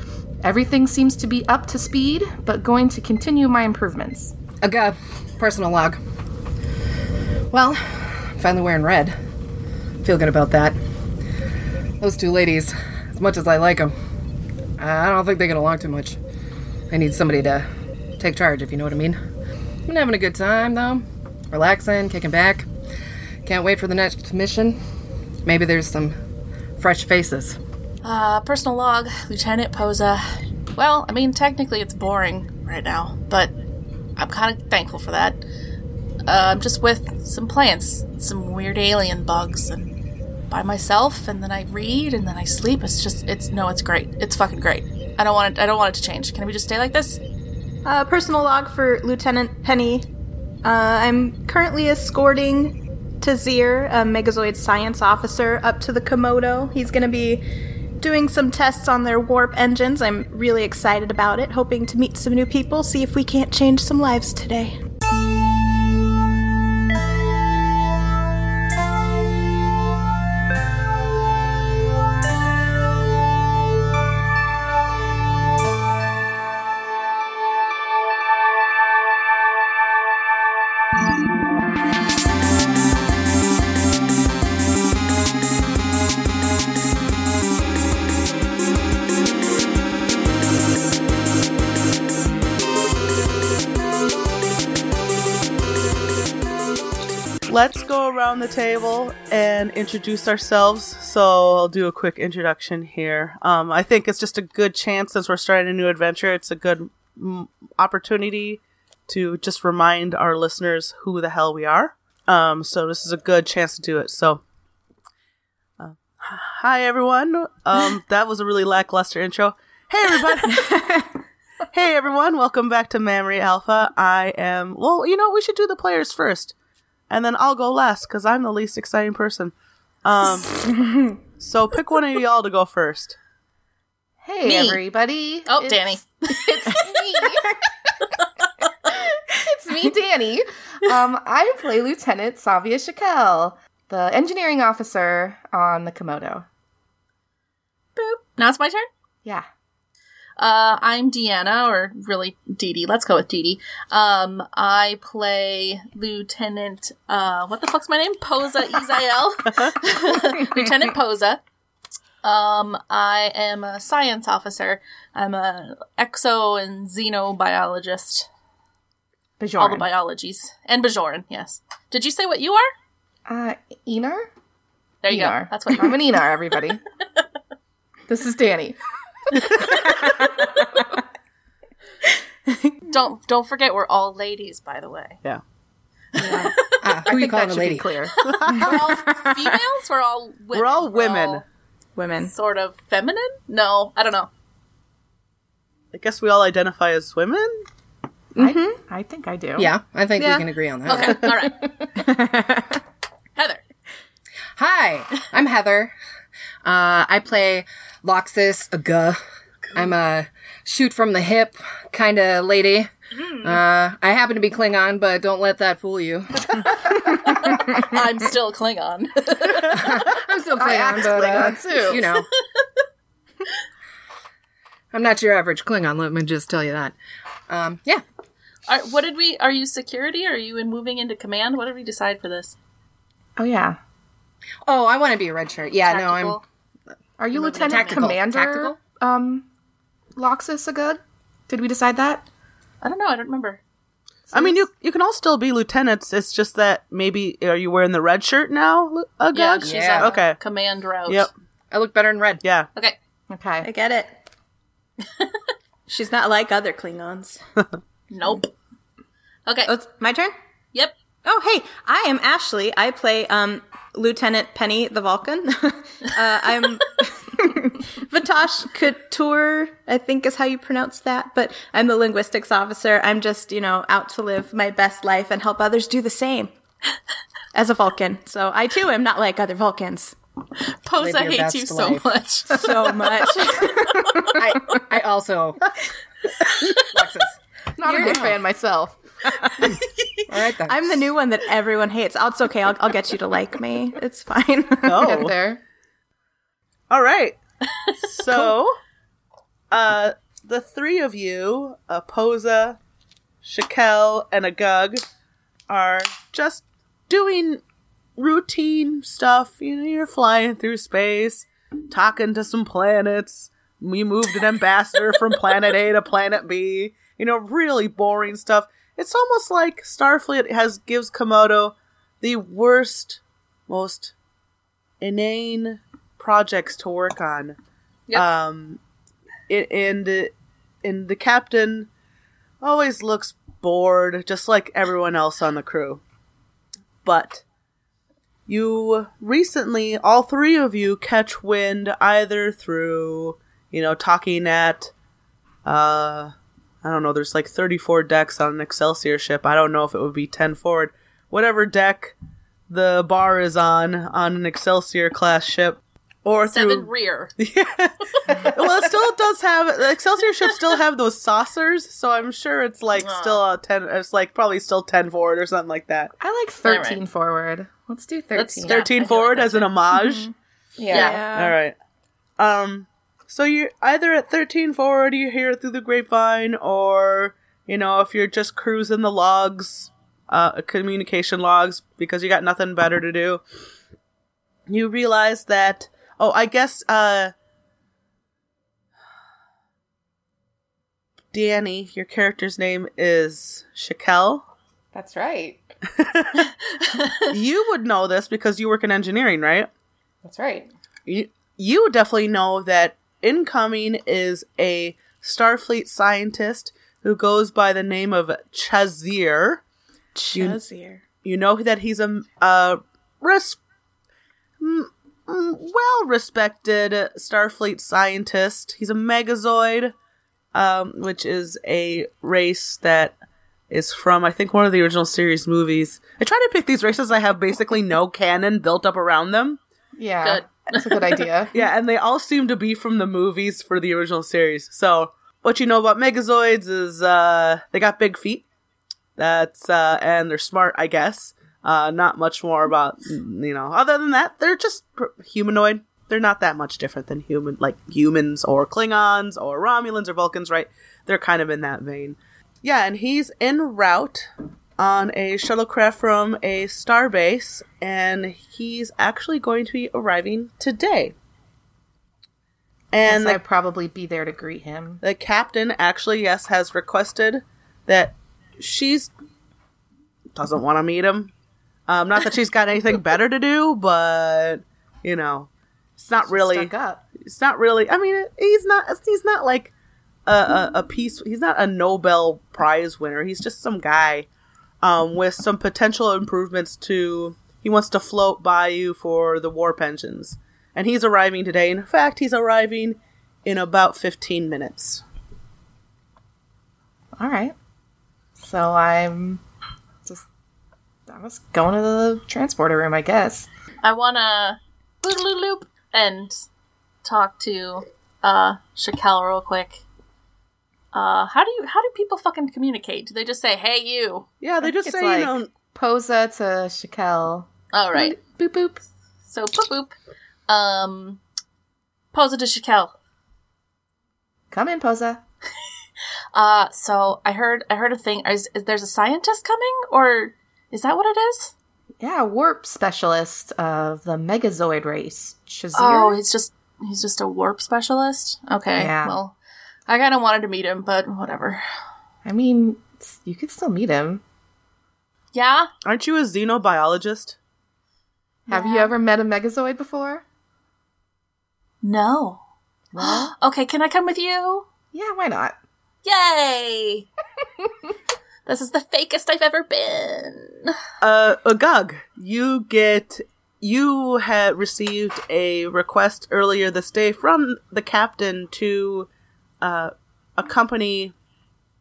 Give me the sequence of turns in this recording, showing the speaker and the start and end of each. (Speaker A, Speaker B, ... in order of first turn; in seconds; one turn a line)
Speaker A: 0.4-4.3
Speaker B: 4.6-6.0
Speaker B: 7.5-9.2
Speaker B: 10.0-10.8
Speaker B: 12.0-13.9
Speaker B: 14.8-16.2
Speaker B: 16.9-17.7
Speaker B: 18.2-19.2
Speaker B: 19.9-22.7
Speaker B: 23.4-24.8
Speaker B: 25.5-26.1
Speaker B: 26.8-27.6
Speaker C: 28.0-33.5
Speaker C: 34.2-35.4
Speaker C: 36.3-39.9
Speaker C: 40.5-47.2
Speaker D: 47.9-50.0
Speaker D: 50.6-57.4
Speaker D: 58.0-64.8
Speaker E: 97.5-114.4
Speaker E: 115.8-120.8
Speaker D: 120.6-121.0
Speaker E: 121.7-126.5
Speaker E: 127.1-130.8
Speaker E: 131.4-133.2
Speaker A: 134.2-137.6
Speaker C: 134.4-134.8
Speaker C: 135.5-137.2
Speaker A: 138.8-146.4
Speaker C: 147.9-148.9
Speaker C: 150.4-161.4
Speaker C: 162.2-168.3
Speaker A: 169.4-169.9
Speaker C: 169.6-172.7
Speaker A: 173.3-174.3
Speaker C: 175.0-176.1
Speaker A: 175.1-176.8
Speaker A: 178.1-178.8
Speaker D: 182.5-182.7
Speaker C: 182.9-185.2
Speaker A: 186.2-186.5
Speaker C: 186.2-186.8
Speaker B: 186.8-187.9
Speaker A: 187.1-188.2
Speaker C: 188.2-191.4
Speaker E: 188.2-188.8
Speaker D: 188.6-189.3
Speaker E: 190.5-191.4
Speaker D: 191.9-192.3
Speaker C: 192.2-194.3
Speaker E: 195.9-197.6
Speaker A: 198.4-199.7
Speaker B: 199.6-201.5
Speaker E: 200.2-201.2
Speaker C: 200.8-201.7
Speaker D: 202.0-202.8
Speaker C: 203.3-203.6
Speaker B: 204.6-205.9
Speaker B: 206.6-209.2
Speaker B: 209.7-217.9
Speaker C: 217.2-220.1
Speaker B: 219.4-222.3
Speaker A: 220.5-222.0
Speaker C: 221.9-222.6
Speaker B: 224.9-226.9
Speaker B: 227.5-228.0
Speaker C: 228.7-232.5
Speaker A: 233.4-233.8
Speaker B: 234.7-236.4
Speaker C: 235.8-236.4
Speaker A: 237.2-239.5
Speaker C: 237.3-238.1
Speaker B: 237.6-238.8
Speaker A: 240.2-242.3
Speaker C: 242.8-243.6
Speaker A: 244.3-244.6
Speaker E: 244.3-250.4
Speaker C: 249.3-251.3
Speaker B: 249.6-250.1
Speaker B: 251.7-252.4
Speaker E: 252.4-252.7
Speaker A: 253.3-253.7
Speaker D: 253.6-254.1
Speaker D: 255.9-257.4
Speaker C: 258.1-258.5
Speaker C: 259.4-259.7
Speaker D: 259.6-260.3
Speaker D: 261.2-276.5
Speaker D: 277.5-280.1
Speaker C: 280.7-284.4
Speaker B: 281.0-282.1
Speaker D: 282.5-284.3
Speaker B: 284.3-285.7
Speaker B: 286.8-288.4
Speaker A: 287.8-289.0
Speaker D: 288.0-288.3
Speaker B: 289.5-291.1
Speaker C: 289.6-290.3
Speaker D: 290.6-295.1
Speaker E: 294.8-295.3
Speaker A: 294.9-295.6
Speaker E: 296.9-297.4
Speaker E: 298.0-298.8
Speaker E: 299.7-302.8
Speaker E: 303.4-305.0
Speaker E: 305.7-307.6
Speaker E: 308.2-324.1
Speaker E: 325.0-327.6
Speaker E: 328.1-328.8
Speaker E: 329.5-331.9
Speaker E: 332.6-336.0
Speaker E: 337.0-337.4
Speaker E: 338.5-344.9
Speaker E: 345.6-352.1
Speaker E: 352.7-366.1
Speaker C: 356.4-357.3
Speaker C: 363.0-363.4
Speaker A: 366.2-368.9
Speaker C: 366.6-367.0
Speaker C: 368.3-370.1
Speaker E: 368.6-370.3
Speaker A: 370.8-371.2
Speaker C: 370.9-371.2
Speaker D: 370.9-371.6
Speaker E: 371.3-371.8
Speaker E: 372.4-383.4
Speaker E: 384.7-387.3
Speaker E: 391.3-394.5
Speaker A: 394.9-395.6
Speaker E: 396.0-396.5
Speaker C: 396.8-397.2
Speaker E: 397.3-399.7
Speaker A: 400.2-400.7
Speaker E: 401.1-409.6
Speaker D: 410.1-411.0
Speaker E: 410.3-410.6
Speaker E: 411.2-413.6
Speaker E: 414.6-419.9
Speaker E: 420.5-423.1
Speaker E: 423.7-429.6
Speaker A: 430.0-431.5
Speaker C: 430.2-431.2
Speaker E: 431.5-438.4
Speaker E: 439.2-461.1
Speaker E: 462.9-463.4
Speaker A: 463.1-465.0
Speaker E: 465.0-469.1
Speaker E: 470.3-471.3
Speaker E: 471.9-479.7
Speaker A: 476.2-477.0
Speaker E: 480.2-484.3
Speaker E: 484.8-495.0
Speaker A: 497.2-497.5
Speaker A: 498.4-499.4
Speaker A: 501.1-503.5
Speaker C: 503.8-506.3
Speaker C: 507.0-509.8
Speaker C: 510.9-514.2
Speaker E: 514.4-515.5
Speaker A: 514.6-518.8
Speaker C: 517.7-518.2
Speaker C: 519.3-519.9
Speaker C: 520.5-521.2
Speaker C: 522.1-522.9
Speaker A: 524.5-525.2
Speaker C: 526.3-531.5
Speaker A: 532.0-536.2
Speaker C: 535.8-539.4
Speaker A: 538.8-539.2
Speaker C: 539.9-541.6
Speaker A: 542.2-544.2
Speaker C: 545.3-545.7
Speaker E: 545.9-547.4
Speaker A: 548.5-550.2
Speaker C: 548.5-548.9
Speaker C: 551.8-552.4
Speaker A: 552.9-553.3
Speaker C: 553.0-554.7
Speaker A: 554.9-555.6
Speaker C: 556.0-557.1
Speaker C: 558.5-560.8
Speaker E: 561.0-569.1
Speaker E: 569.6-571.1